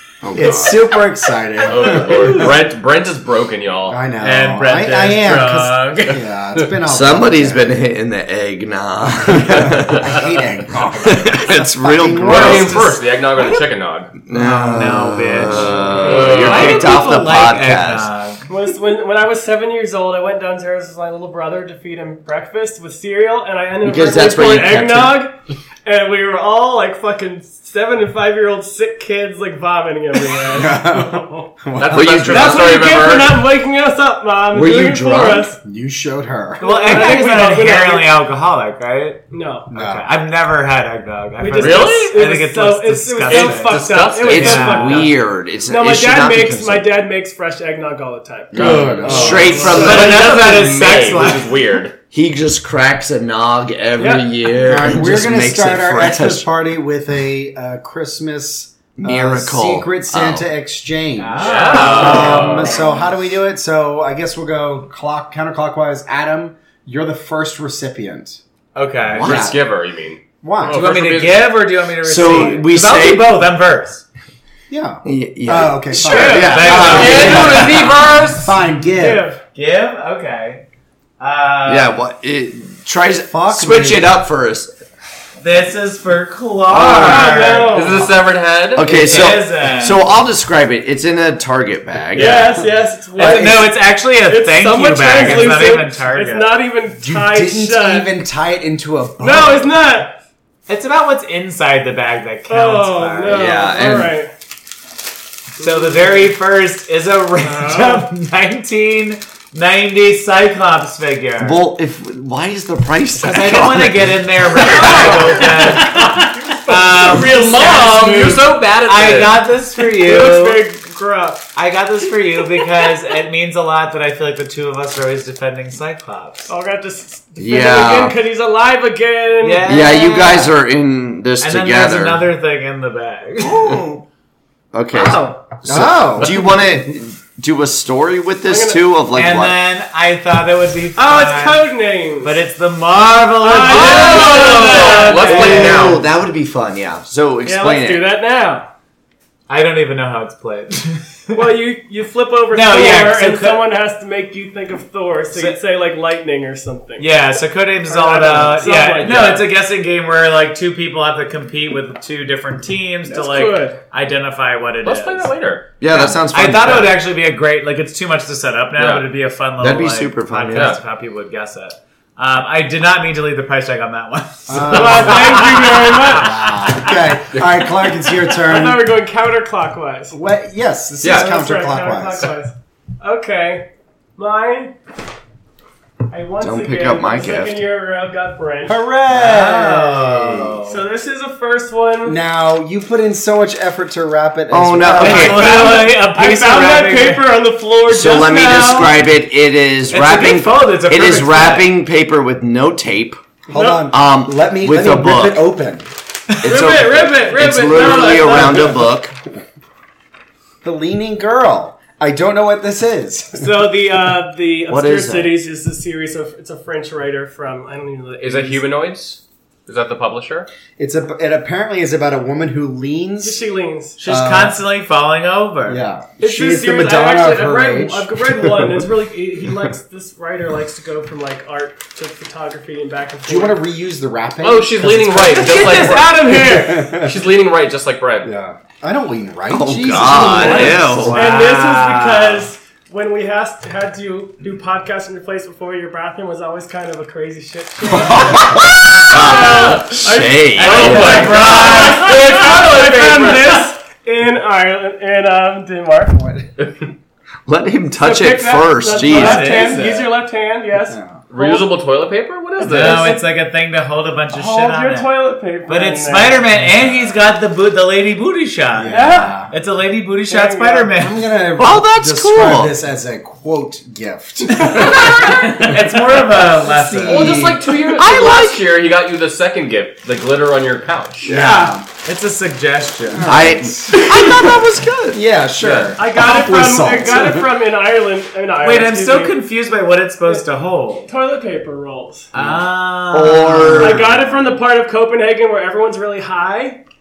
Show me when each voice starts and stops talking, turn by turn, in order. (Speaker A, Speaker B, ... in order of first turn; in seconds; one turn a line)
Speaker A: 0.2-0.8
Speaker B: 0.3-2.6
Speaker C: 1.6-4.0
Speaker B: 3.9-7.7
Speaker D: 4.2-6.2
Speaker A: 6.8-10.3
Speaker B: 9.3-12.9
Speaker A: 11.0-12.9
Speaker C: 12.3-14.1
Speaker A: 14.3-18.1
Speaker D: 14.3-18.5
Speaker C: 16.0-16.8
Speaker E: 16.1-17.1
Speaker E: 18.5-31.5
Speaker A: 23.8-25.2
Speaker B: 30.5-32.3
Speaker C: 31.7-33.5
Speaker A: 31.9-33.0
Speaker E: 32.2-35.6
Speaker A: 34.5-35.5
Speaker B: 35.6-36.6
Speaker E: 36.6-38.1
Speaker D: 36.6-45.1
Speaker E: 39.3-39.7
Speaker B: 39.7-40.1
Speaker E: 41.4-50.3
Speaker C: 41.5-42.2
Speaker C: 43.2-44.5
Speaker A: 44.2-46.9
Speaker A: 48.5-50.8
Speaker D: 48.5-51.5
Speaker C: 48.5-51.9
Speaker B: 48.9-49.9
Speaker A: 52.1-56.4
Speaker E: 54.0-54.3
Speaker B: 54.6-68.4
Speaker A: 59.0-60.5
Speaker D: 61.2-62.8
Speaker C: 61.4-62.9
Speaker E: 62.2-62.8
Speaker D: 68.7-69.3
Speaker A: 69.1-69.5
Speaker B: 69.2-69.6
Speaker C: 69.2-71.4
Speaker B: 70.4-70.8
Speaker D: 70.6-74.0
Speaker A: 72.0-73.3
Speaker B: 74.7-77.8
Speaker A: 75.0-78.0
Speaker E: 76.1-77.1
Speaker D: 76.1-77.9
Speaker C: 76.7-78.5
Speaker B: 78.4-79.3
Speaker E: 79.0-79.4
Speaker D: 79.5-80.6
Speaker D: 81.2-82.0
Speaker A: 81.7-84.7
Speaker B: 83.3-84.1
Speaker D: 85.4-87.8
Speaker C: 86.7-89.2
Speaker E: 86.8-88.1
Speaker A: 88.7-92.6
Speaker D: 88.8-90.1
Speaker E: 92.1-98.1
Speaker D: 93.1-96.5
Speaker B: 93.2-93.7
Speaker B: 97.0-99.8
Speaker E: 99.2-100.2
Speaker D: 100.7-103.4
Speaker E: 102.5-104.3
Speaker A: 103.3-104.2
Speaker D: 105.6-111.6
Speaker E: 105.6-106.3
Speaker E: 107.4-108.1
Speaker A: 111.4-115.2
Speaker D: 113.2-118.1
Speaker E: 114.7-118.4
Speaker C: 117.1-119.4
Speaker D: 118.8-120.6
Speaker E: 119.8-121.5
Speaker D: 121.5-126.5
Speaker E: 126.5-129.7
Speaker A: 127.4-128.2
Speaker D: 129.4-130.5
Speaker A: 129.6-132.3
Speaker D: 131.4-133.8
Speaker A: 133.5-133.8
Speaker A: 134.7-139.6
Speaker D: 134.9-135.4
Speaker B: 135.7-136.3
Speaker E: 138.4-138.8
Speaker D: 139.1-141.7
Speaker E: 140.9-142.4
Speaker D: 142.2-145.9
Speaker E: 143.4-146.0
Speaker C: 143.7-146.0
Speaker A: 145.2-148.1
Speaker E: 147.4-148.7
Speaker D: 149.5-151.4
Speaker E: 151.3-157.2
Speaker D: 152.5-153.7
Speaker D: 155.3-155.6
Speaker D: 157.0-165.3
Speaker E: 157.8-159.5
Speaker E: 163.1-163.8
Speaker C: 164.8-165.7
Speaker A: 165.8-167.0
Speaker D: 165.9-176.8
Speaker C: 168.8-169.1
Speaker A: 169.6-170.8
Speaker C: 170.5-170.8
Speaker B: 174.5-175.4
Speaker E: 174.6-176.5
Speaker B: 176.1-178.9
Speaker E: 178.3-180.2
Speaker B: 180.1-182.3
Speaker C: 181.0-181.3
Speaker E: 181.0-184.7
Speaker E: 186.1-188.8
Speaker A: 186.4-187.7
Speaker B: 188.6-190.6
Speaker D: 189.1-190.8
Speaker E: 190.6-192.2
Speaker B: 192.0-195.5
Speaker A: 194.5-195.8
Speaker D: 194.9-197.4
Speaker E: 195.0-198.8
Speaker A: 197.8-203.2
Speaker D: 198.1-199.0
Speaker D: 199.9-201.7
Speaker B: 203.5-205.9
Speaker E: 203.5-203.9
Speaker A: 203.9-205.4
Speaker A: 206.4-209.1
Speaker E: 206.4-208.8
Speaker B: 210.6-213.7
Speaker E: 213.3-218.6
Speaker A: 214.7-215.4
Speaker C: 218.2-220.5
Speaker B: 220.8-223.4
Speaker E: 223.2-224.0
Speaker D: 224.0-225.8
Speaker B: 224.0-224.6
Speaker B: 225.7-228.8
Speaker E: 226.2-233.6
Speaker B: 233.2-237.1
Speaker C: 234.4-238.3
Speaker D: 235.4-236.1
Speaker E: 235.4-236.9
Speaker B: 238.2-241.1
Speaker A: 239.5-241.2
Speaker E: 240.2-256.3
Speaker D: 240.4-242.5
Speaker A: 247.9-251.8
Speaker C: 249.3-249.8
Speaker D: 250.6-252.3
Speaker C: 250.6-253.7
Speaker B: 256.2-256.5
Speaker A: 257.5-259.6
Speaker E: 258.0-261.7
Speaker D: 258.9-260.1
Speaker B: 260.9-261.2
Speaker C: 261.3-263.2
Speaker E: 262.6-263.3
Speaker D: 262.6-271.2
Speaker E: 264.3-266.6
Speaker B: 268.8-269.5
Speaker E: 268.9-269.4
Speaker E: 270.3-270.9
Speaker B: 270.9-277.8
Speaker A: 271.6-272.7
Speaker D: 274.5-277.4
Speaker C: 277.1-281.3
Speaker A: 277.8-278.6
Speaker B: 281.2-281.9
Speaker D: 281.3-283.3
Speaker B: 283.1-284.3
Speaker A: 283.2-285.2
Speaker B: 285.1-287.5
Speaker C: 285.6-286.0
Speaker E: 285.9-289.4
Speaker D: 288.6-291.1
Speaker E: 291.1-292.3
Speaker D: 292.3-294.5
Speaker A: 292.4-294.2
Speaker E: 293.8-296.8